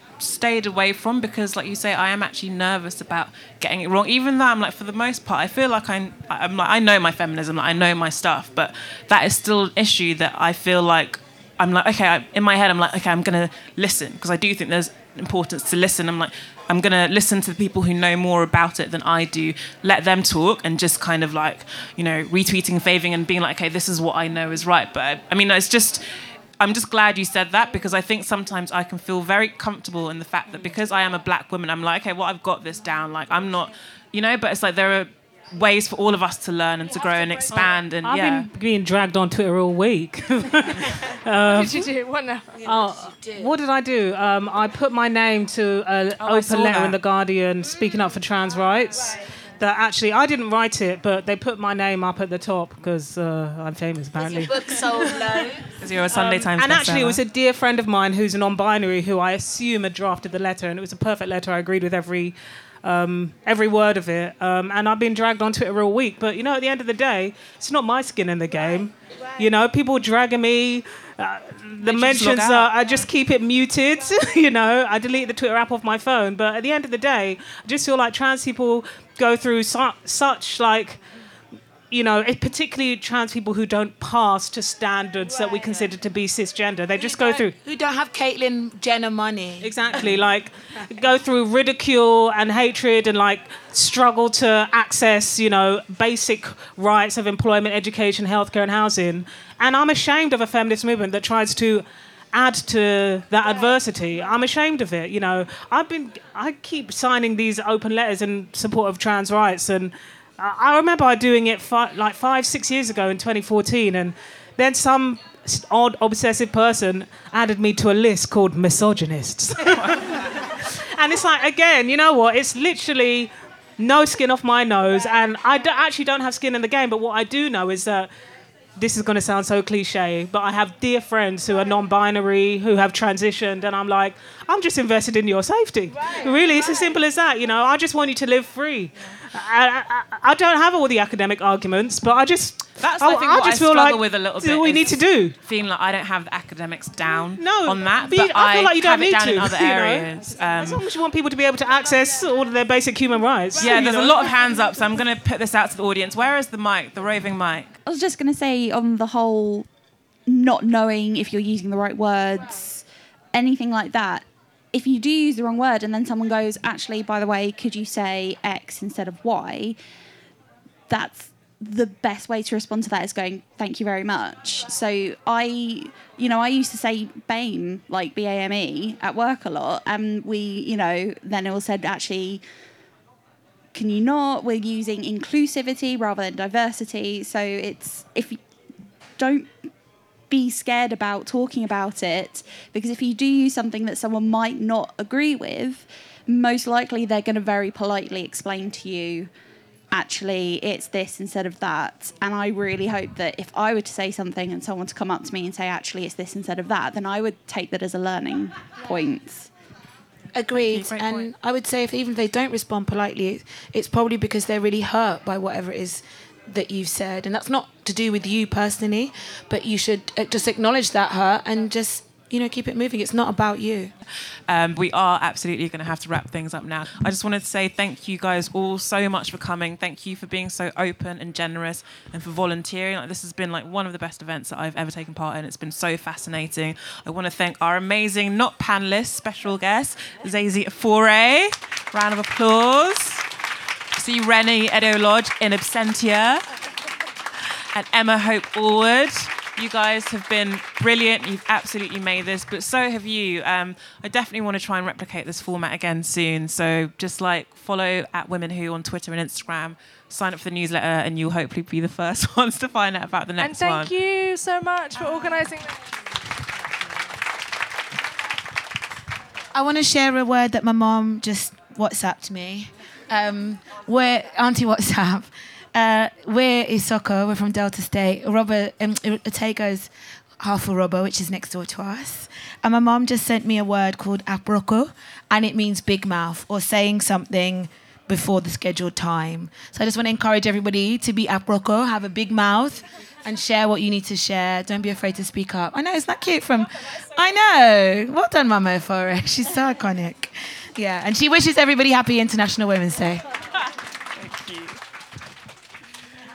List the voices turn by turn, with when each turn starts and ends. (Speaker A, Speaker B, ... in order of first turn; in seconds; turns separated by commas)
Speaker A: 0.2-26.1, Speaker A: 26.6-38.5, Speaker B: 37.5-41.9, Speaker C: 41.5-42.6, Speaker B: 42.6-55.2, Speaker D: 42.7-43.5, Speaker A: 46.2-47.0, Speaker D: 54.2-55.6, Speaker A: 55.8-57.2, Speaker B: 56.1-81.0, Speaker A: 71.8-73.0, Speaker B: 81.9-87.5, Speaker D: 85.3-85.8, Speaker D: 87.0-90.2, Speaker B: 89.6-128.1, Speaker B: 128.8-145.3, Speaker A: 142.8-150.8, Speaker B: 147.4-154.3, Speaker A: 153.6-157.7, Speaker E: 157.8-159.7, Speaker E: 160.3-169.8, Speaker E: 170.9-182.4, Speaker E: 183.7-188.4, Speaker E: 189.2-189.7, Speaker E: 190.3-199.3, Speaker E: 199.9-209.5, Speaker D: 210.3-223.9, Speaker A: 210.7-211.3, Speaker A: 224.5-243.3, Speaker A: 243.9-246.4, Speaker A: 247.7-263.9, Speaker C: 263.4-265.8, Speaker D: 269.5-303.2, Speaker A: 304.2-304.7